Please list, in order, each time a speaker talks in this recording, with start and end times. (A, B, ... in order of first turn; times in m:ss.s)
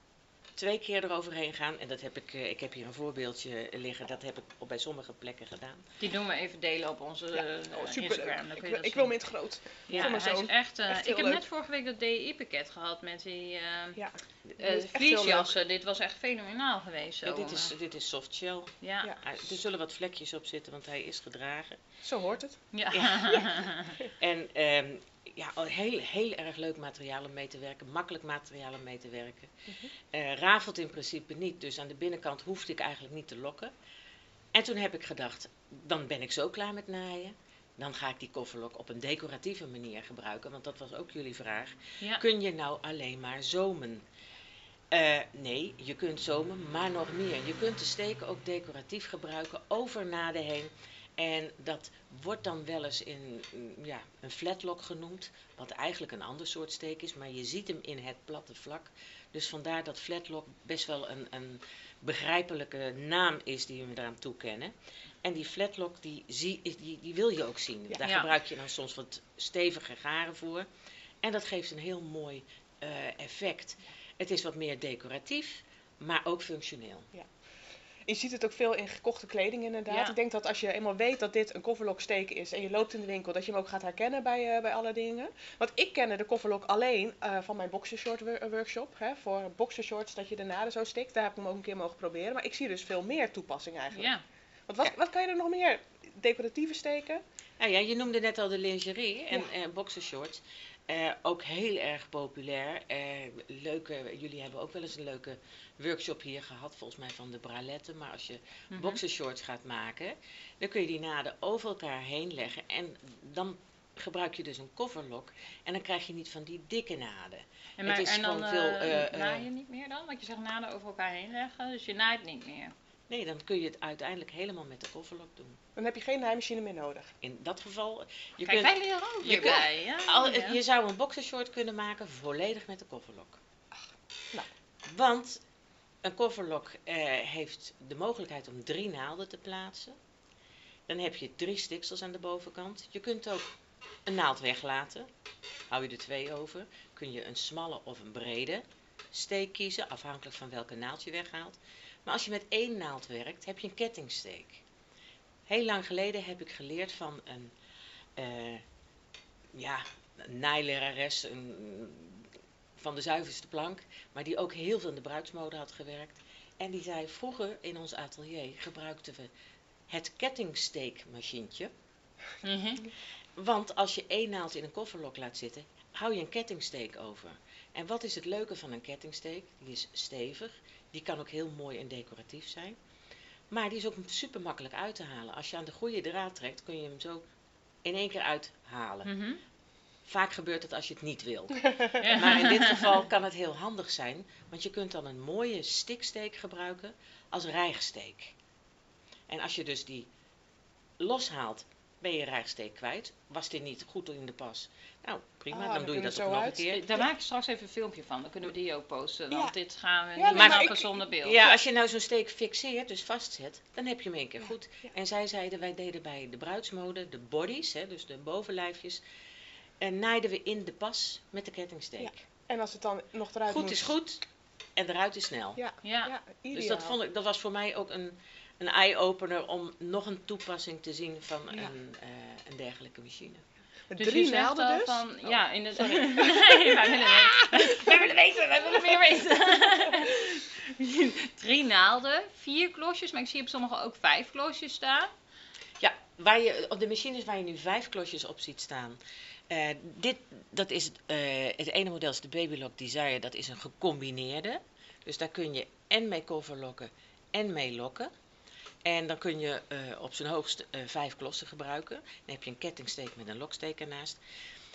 0:00.6-0:05.8 A
0:06.0-0:09.2 B
0:07.4-0:11.4 C
0:09.9-0:14.0 B
0:09.9-0:10.2 A
0:14.0-0:15.6 C
0:14.6-0:17.7 B
0:17.2-0:21.8 A
0:18.8-0:19.2 B
0:22.0-0:22.6 C
0:22.7-0:24.0 B
0:22.9-0:23.4 A
0:24.2-0:29.5 A
0:30.1-0:33.7 A
0:34.5-0:44.0 A
0:44.9-1:04.7 A
1:05.2-1:10.7 A
1:08.0-1:08.3 B
1:11.2-1:17.1 A
1:18.1-1:34.1 C
1:19.9-1:20.2 B
1:33.9-1:34.2 B
1:34.7-1:37.2 C
1:37.6-1:59.5 A
1:48.7-1:49.0 B
1:57.8-2:02.7 B
2:03.1-2:05.6 A
2:05.8-2:07.1 C
2:07.2-2:13.4 A
2:08.4-2:10.6 B
2:14.9-2:15.4 A
2:16.0-2:20.0 A
2:20.9-2:23.5 A
2:24.1-2:25.1 A
2:25.7-2:34.6 A
2:35.5-2:37.5 A
2:38.2-2:38.6 A
2:39.5-2:49.3 A
2:49.9-2:51.7 A
2:52.4-2:52.9 B
2:53.4-3:02.8 A
3:03.5-3:07.2 A
3:07.8-3:09.1 A
3:09.0-3:09.4 B
3:10.1-3:18.4 A
3:12.0-3:12.9 B
3:19.3-3:20.1 A
3:21.0-3:26.8 A
3:25.5-3:27.0 C
3:26.7-3:31.5 B
3:29.3-3:29.6 C
3:30.2-3:30.9 C
3:30.3-3:30.7 A
3:31.2-3:39.0 A
3:39.8-3:42.2 A
3:42.0-3:44.0 C
3:43.5-3:44.2 A
3:44.8-3:45.6 A
3:45.6-3:47.0 C
3:45.8-3:46.2 B
3:46.5-3:53.4 A
3:53.9-3:57.3 C
3:54.0-4:05.1 B
4:05.8-4:18.1 A
4:18.8-4:24.2 A